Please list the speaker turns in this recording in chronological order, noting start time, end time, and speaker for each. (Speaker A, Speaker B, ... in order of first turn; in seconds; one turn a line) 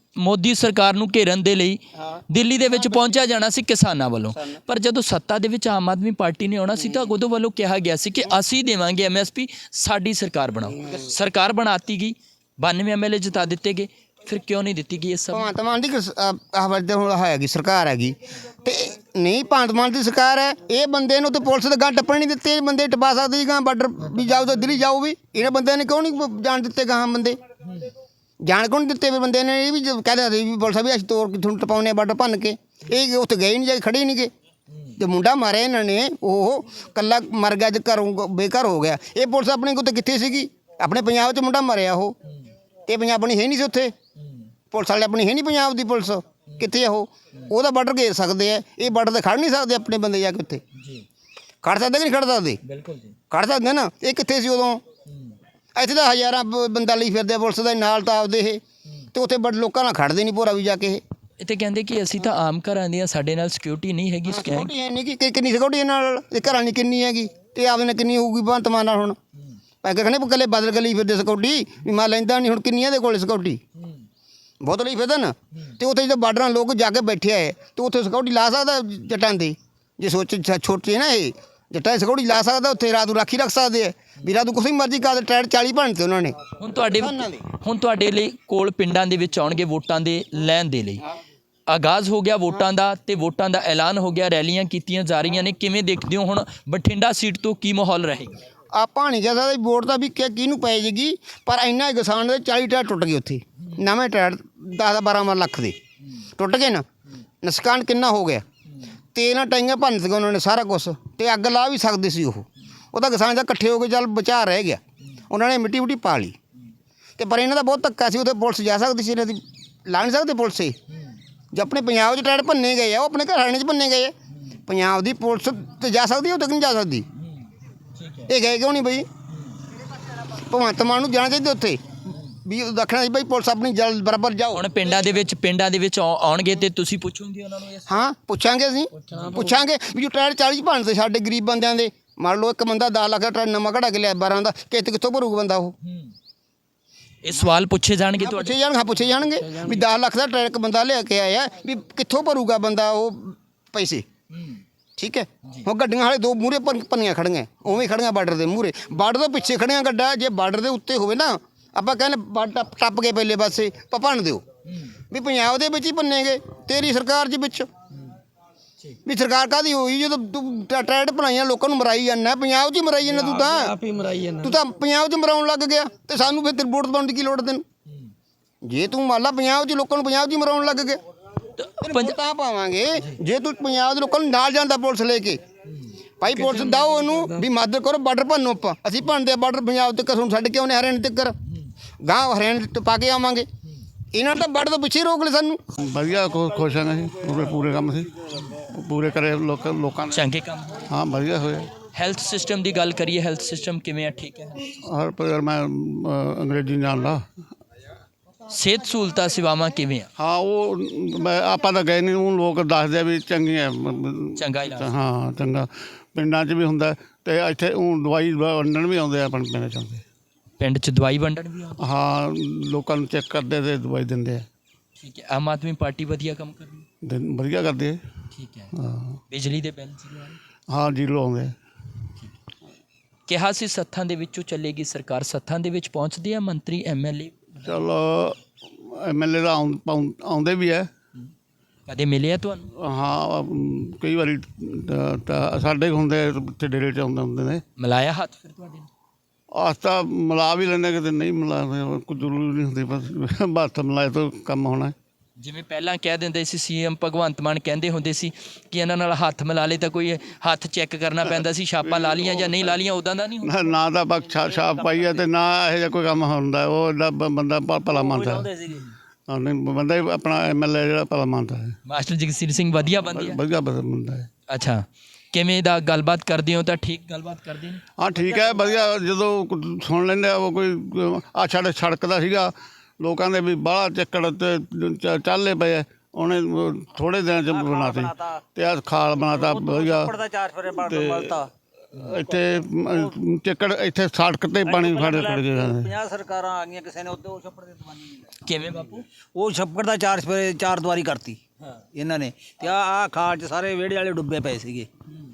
Speaker A: 0.2-15.5
Speaker B: 15.3-27.4
Speaker B: 28.4-34.3
Speaker B: 35.0-42.1
Speaker B: 42.9-43.9
Speaker A: 44.2-44.5
Speaker B: 44.7-50.6
Speaker A: 50.8-51.0
Speaker B: 51.6-52.6
Speaker A: 52.6-53.1
Speaker B: 53.3-54.8
Speaker A: 55.1-55.4
Speaker B: 55.8-58.6
Speaker B: 59.1-61.0
Speaker A: 61.4-64.7
Speaker B: 64.3-69.2
Speaker B: 69.8-73.6
Speaker A: 73.8-74.1
Speaker B: 74.6-87.4
Speaker A: 86.6-91.0
Speaker A: 91.7-98.4
Speaker B: 98.7-105.8
Speaker B: 106.4-106.8
Speaker B: 107.4-108.5
Speaker B: 109.2-116.4
Speaker B: 117.2-120.8
Speaker B: 121.5-124.2
Speaker B: 124.7-127.1
Speaker A: 128.0-128.3
Speaker B: 128.3-129.1
Speaker B: 130.3-131.8
Speaker B: 132.4-134.7
Speaker A: 134.5-137.9
Speaker B: 137.9-145.7
Speaker C: 139.0-139.6
Speaker A: 145.8-146.1
Speaker A: 147.2-148.6
Speaker B: 148.2-154.1
Speaker C: 149.4-149.8
Speaker A: 154.3-154.6
Speaker B: 155.0-164.4
Speaker A: 164.7-164.9
Speaker B: 165.1-167.7
Speaker B: 169.1-173.7
Speaker C: 173.1-174.6
Speaker B: 174.4-177.7
Speaker B: 178.6-181.0
Speaker A: 181.6-182.2
Speaker B: 181.8-185.4
Speaker B: 186.2-191.3
Speaker C: 186.3-187.4
Speaker B: 192.0-193.5
Speaker B: 194.1-195.6
Speaker D: 195.8-200.3
Speaker A: 200.1-200.9
Speaker D: 200.9-201.7
Speaker A: 201.8-204.6
Speaker D: 204.8-207.2
Speaker A: 208.5-210.1
Speaker D: 210.2-220.0
Speaker A: 214.4-214.9
Speaker A: 220.6-221.8
Speaker D: 221.8-224.4
Speaker A: 225.0-226.9
Speaker D: 227.0-228.0
Speaker A: 228.3-228.7
Speaker D: 228.8-229.2
Speaker A: 229.3-230.4
Speaker D: 230.7-231.6
Speaker A: 233.3-237.8
Speaker D: 237.6-240.9
Speaker A: 241.9-242.7
Speaker D: 242.8-247.6
Speaker A: 247.8-248.9
Speaker D: 249.6-254.9
Speaker A: 255.4-263.7
Speaker D: 261.9-262.8
Speaker D: 263.4-268.5
Speaker E: 264.2-265.2
Speaker E: 267.9-268.8
Speaker D: 269.3-271.8
Speaker A: 271.9-273.4
Speaker D: 273.1-274.3
Speaker A: 274.5-277.8
Speaker D: 278.0-290.1
Speaker E: 278.2-278.8
Speaker E: 287.5-288.4
Speaker E: 289.3-291.5
Speaker D: 290.8-291.4
Speaker D: 291.9-295.9
Speaker E: 294.6-298.3
Speaker A: 298.4-299.0
Speaker E: 299.4-301.4
Speaker E: 301.9-304.9